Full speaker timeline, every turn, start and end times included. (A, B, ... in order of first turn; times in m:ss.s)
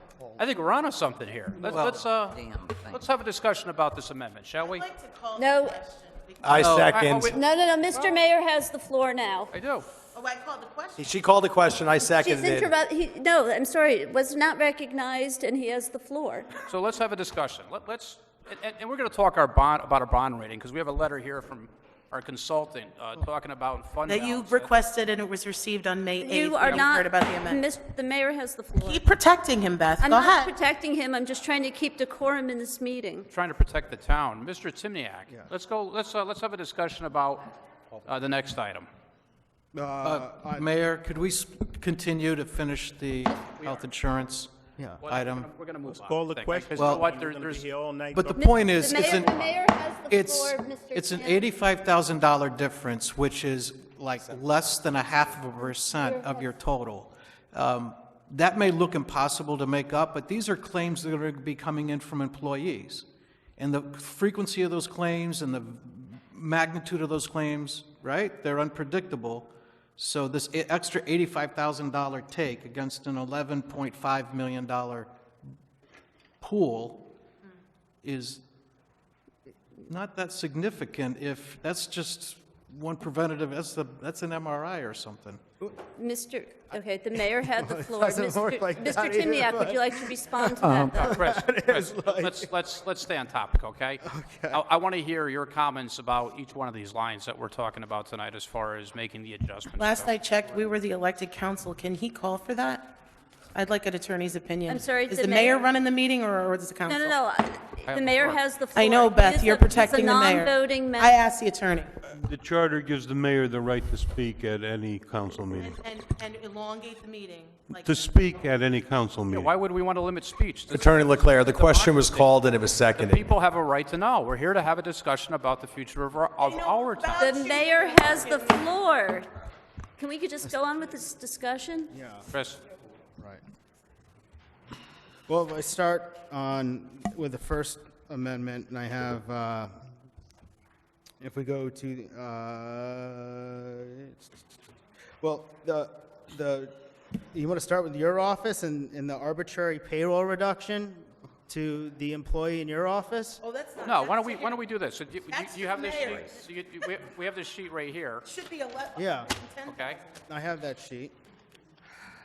0:00.4-0:04.9 A
0:01.6-0:02.0 B
0:04.6-0:07.2 C
0:05.4-0:05.8 D
0:06.4-0:07.4 E
0:06.5-0:07.0 B
0:06.6-0:07.4 A
0:07.2-0:09.5 D
0:07.9-0:08.2 A
0:09.5-0:09.9 A
0:10.1-0:11.1 C
0:11.0-0:12.7 E
0:12.0-0:16.6 D
0:16.6-0:24.7 A
0:24.1-0:27.7 C
0:26.2-0:29.0 D
0:26.6-0:26.9 A
0:28.8-0:30.5 C
0:30.0-0:33.3 D
0:33.3-0:38.9 A
0:39.7-0:40.7 F
0:40.0-0:44.5 B
0:43.4-0:43.9 A
0:45.0-0:47.7 A
0:45.1-0:45.5 B
0:45.8-0:49.3 G
0:46.7-0:47.1 B
0:48.1-0:49.4 B
0:48.4-0:51.4 D
0:50.1-1:03.1 B
0:56.1-0:56.6 D
1:03.6-1:15.1 B
1:16.4-1:17.1 B
1:18.0-1:18.4 B
1:19.8-1:25.4 B
1:26.0-1:31.2 D
1:26.7-1:32.5 F
1:30.6-1:30.9 B
1:30.9-1:40.1 A
1:34.1-1:34.6 F
1:39.8-1:43.0 C
1:43.5-1:47.2 C
1:44.7-1:45.7 D
1:46.9-1:51.2 D
1:47.8-1:48.4 A
1:48.8-1:51.9 C
1:52.1-1:55.8 G
1:55.6-1:58.0 C
1:57.8-1:59.5 G
1:59.3-2:07.4 A
2:00.7-2:03.2 E
2:06.4-2:08.7 C
2:07.2-2:09.3 D
2:10.0-2:11.9 D
2:11.9-2:12.3 F
2:12.3-2:12.6 A
2:15.3-2:19.7 F
2:21.2-2:24.4 F
2:25.2-2:26.7 F
2:27.3-2:33.4 F
2:33.4-2:34.6 C
2:33.8-2:38.3 A
2:35.3-2:36.4 C
2:38.3-2:40.1 C
2:39.0-2:39.3 F
2:39.6-2:40.0 A
2:40.3-2:41.1 F